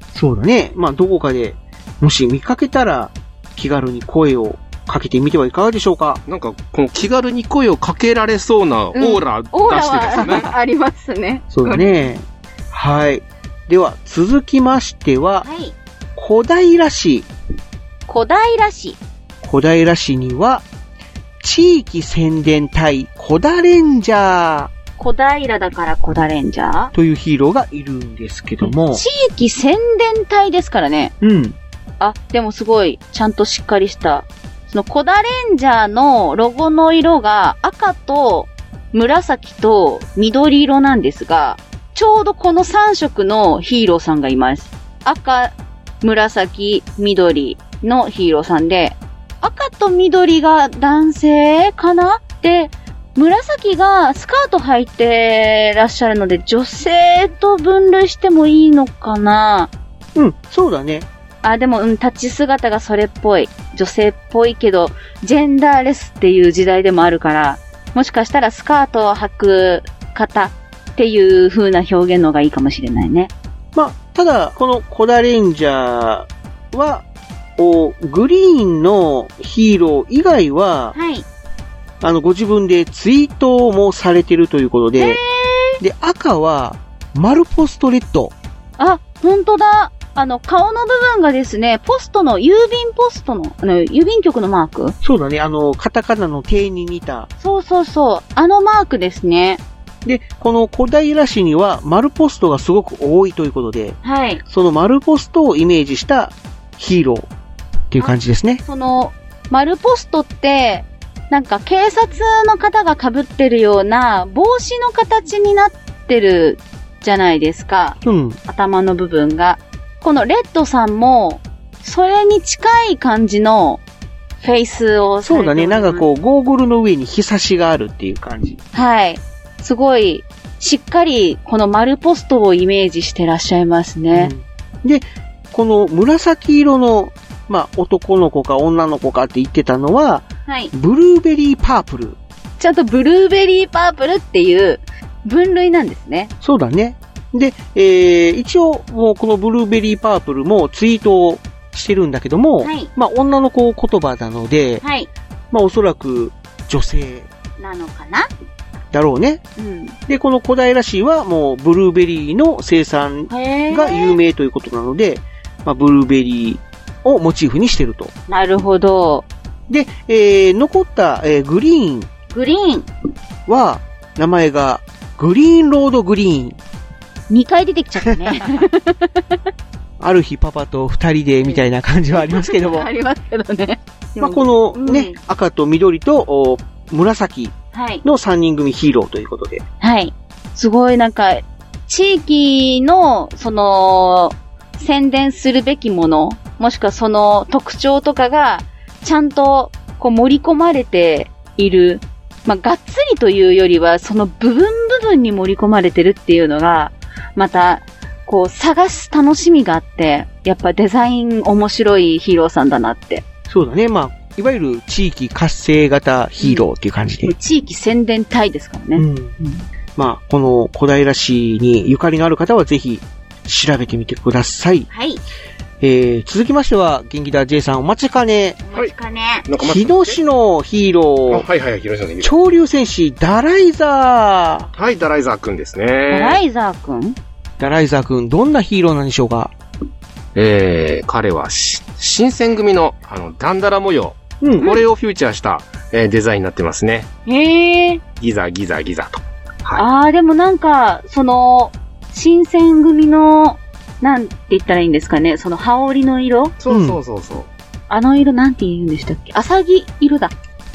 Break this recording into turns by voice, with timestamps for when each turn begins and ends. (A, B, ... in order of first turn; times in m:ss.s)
0:00.1-0:06.2 A
0:06.3-0:10.5 B
0:09.0-0:11.9 C
0:11.5-0:15.4 A
0:15.4-0:15.7 C
0:16.2-0:17.3 A
0:18.1-0:19.0 C
0:19.4-0:20.6 A
0:21.4-0:24.7 A
0:25.0-0:26.9 C
0:26.9-0:29.0 A
0:28.6-0:31.1 C
0:31.2-0:31.6 A
0:32.0-0:59.7 C
1:00.1-1:01.1 A
1:01.4-1:13.3 C
1:13.7-1:17.0 A
1:17.6-1:21.0 A
1:20.9-1:21.3 C
1:22.0-1:25.2 A
1:25.0-1:25.8 C
1:25.8-1:28.3 A
1:28.8-1:35.0 C
1:35.0-1:37.3 A
1:37.4-1:39.6 C
1:40.0-1:47.3 A
1:44.0-1:44.4 C
1:47.9-1:48.6 A
1:48.0-2:03.8 C
1:58.0-1:58.4 A
2:04.4-2:06.1 C
2:05.2-2:08.6 A
2:08.7-2:14.3 C
2:14.1-2:22.2 A
2:20.5-2:20.7 C
2:22.6-2:26.3 C
2:26.4-2:34.8 A
2:32.6-2:32.9 C
2:34.8-2:35.1 C
2:35.5-2:37.3 A
2:37.6-2:38.3 C
2:38.9-2:39.4 A
2:39.6-2:40.0 C
2:40.1-2:48.1 A
2:43.3-2:44.2 C
2:48.3-2:49.3 C
2:49.7-2:52.1 A
2:52.3-2:52.9 C
2:53.5-2:56.6 A
2:57.3-2:58.7 C
3:00.0-3:02.9 A
3:02.1-3:05.2 C
3:04.2-3:09.6 A
3:07.7-3:08.0 C
3:09.8-3:33.2 C
3:33.5-3:37.3 A
3:36.4-3:36.6 C
3:37.2-3:39.6 C
3:39.0-3:39.4 A
3:40.0-3:44.9 A
3:44.9-3:45.2 C
3:45.8-3:48.6 A
3:48.6-3:49.5 C
3:49.5-3:50.2 B
3:49.6-3:51.4 A
3:51.3-3:52.3 B
3:52.2-3:54.7 A
3:54.7-3:56.4 B
3:56.1-3:57.2 C
3:57.6-3:59.5 A
4:00.3-4:07.1 B
4:04.4-4:04.7 A
4:07.3-4:08.0 C
4:08.2-4:09.8 B
4:09.8-4:16.6 C
4:16.6-4:17.5 B
4:16.7-4:17.0 A
4:17.9-4:20.3 C